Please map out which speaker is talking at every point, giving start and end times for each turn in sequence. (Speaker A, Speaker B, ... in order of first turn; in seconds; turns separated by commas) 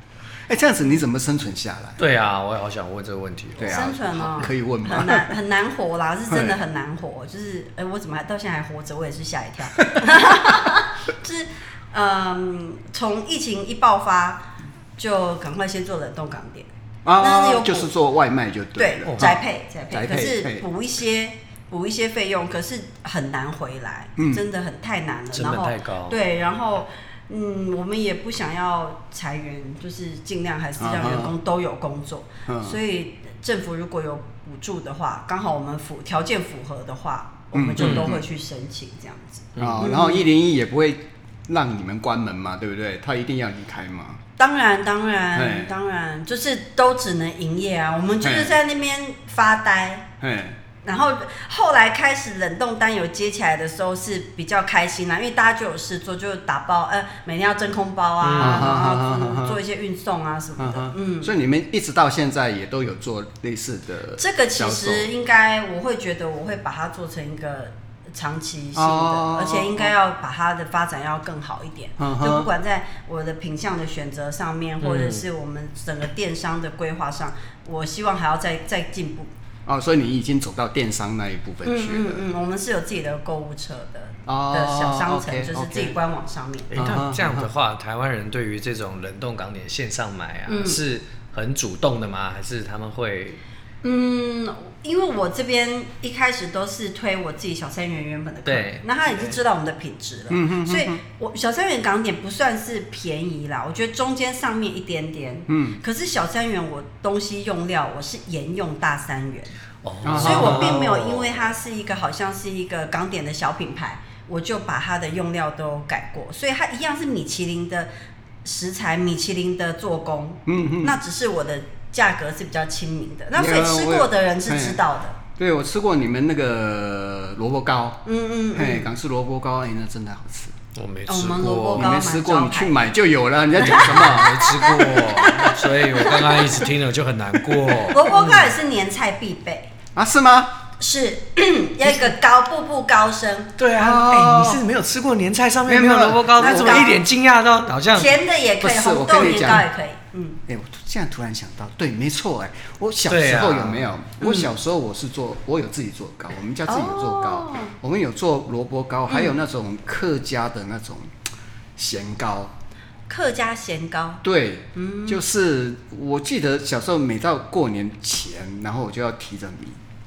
Speaker A: 0.5-2.0, Speaker B: 2.0-4.0, Speaker A: 3.6-5.2, Speaker C: 3.6-17.9, Speaker A: 6.3-6.6, Speaker A: 9.8-10.2, Speaker A: 17.0-20.6, Speaker C: 18.8-40.2, Speaker B: 19.1-19.3, Speaker A: 24.2-24.4, Speaker B: 25.3-26.2, Speaker A: 30.8-31.3, Speaker A: 32.5-32.8, Speaker A: 37.5-38.2, Speaker B: 37.8-38.1, Speaker B: 39.5-39.9, Speaker A: 39.6-44.2, Speaker C: 44.4-50.1, Speaker A: 45.3-45.7, Speaker A: 48.2-48.6, Speaker A: 50.2-50.6, Speaker C: 50.8-61.3, Speaker B: 58.2-58.8, Speaker A: 58.4-59.6, Speaker A: 60.6-65.1, Speaker C: 64.2-79.3, Speaker A: 68.8-69.9, Speaker A: 72.0-72.5, Speaker B: 74.8-75.2, Speaker A: 79.7-82.2, Speaker C: 81.6-86.7, Speaker A: 84.2-86.0, Speaker B: 86.7-93.4, Speaker A: 86.7-87.5, Speaker C: 90.5-90.8, Speaker C: 93.8-109.5, Speaker B: 98.5-99.3, Speaker A: 100.3-101.0, Speaker A: 105.5-105.8, Speaker B: 109.8-111.4, Speaker A: 110.0-110.8, Speaker C: 110.1-117.9, Speaker C: 118.4-125.2, Speaker A: 120.5-121.0, Speaker A: 123.3-124.8, Speaker A: 125.3-130.5, Speaker C: 128.0-128.9, Speaker B: 130.7-132.0, Speaker C: 131.1-132.8, Speaker A: 131.4-134.4, Speaker B: 133.6-138.5, Speaker C: 133.7-136.6, Speaker C: 137.9-139.7, Speaker A: 139.9-140.6, Speaker C: 140.8-143.5, Speaker B: 143.6-148.1, Speaker A: 143.8-144.6, Speaker A: 145.7-147.0, Speaker C: 146.4-147.0, Speaker C: 147.9-150.4, Speaker A: 148.6-149.7, Speaker A: 150.5-161.1, Speaker B: 153.1-153.9, Speaker C: 154.2-154.5, Speaker C: 156.7-157.7, Speaker C: 159.1-159.3, Speaker A: 161.8-162.5, Speaker C: 163.1-164.2, Speaker A: 164.2-169.8, Speaker C: 164.7-165.2